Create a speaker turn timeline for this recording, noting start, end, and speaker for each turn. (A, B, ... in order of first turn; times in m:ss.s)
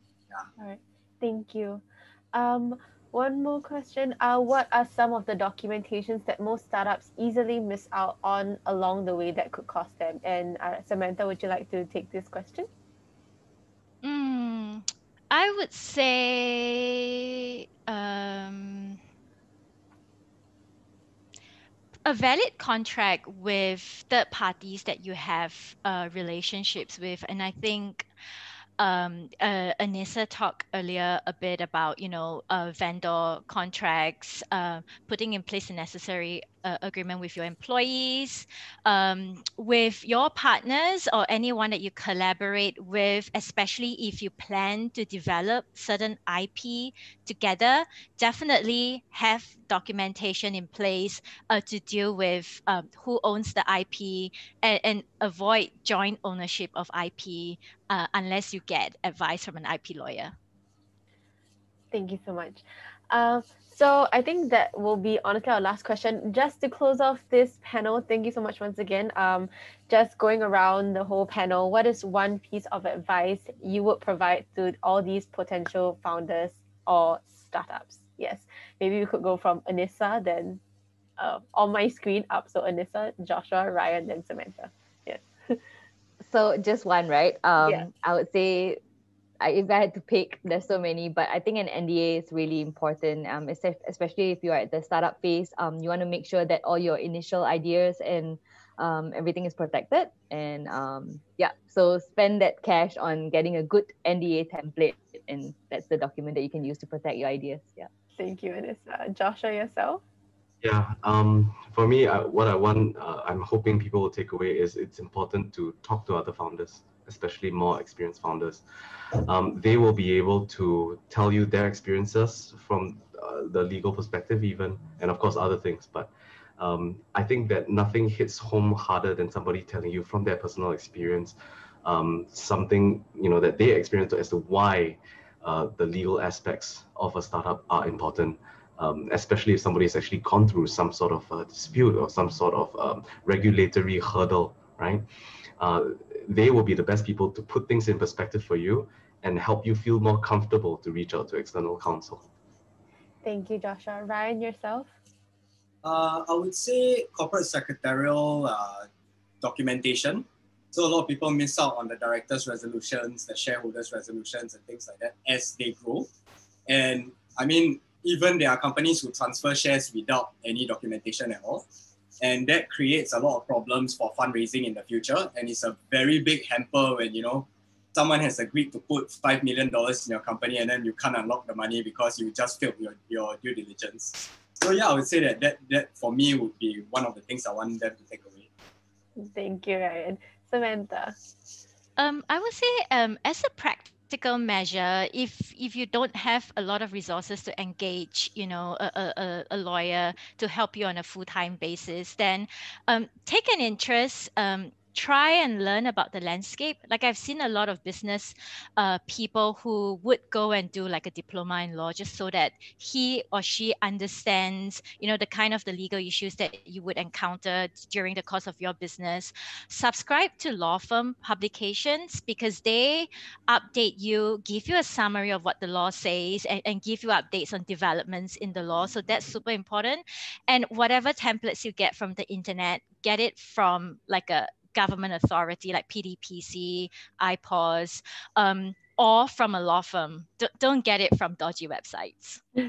0:00.6-0:12.7 A
0:14.0-0:19.0 B
0:22.0-0:28.1 B
0:28.8-1:00.3 B
1:01.9-1:20.6 A
1:21.2-1:25.6 A
1:26.2-1:28.8 C
1:29.4-1:47.9 C
1:48.1-1:50.0 A
1:50.6-1:58.6 D
1:59.2-2:25.0 D
2:25.6-2:32.2 D
2:33.2-2:34.9 A
2:35.8-2:38.9 E
2:39.4-2:46.1 E
2:46.7-2:51.6 E
2:52.2-3:08.5 E
3:09.2-3:11.2 A
3:12.0-4:02.4 B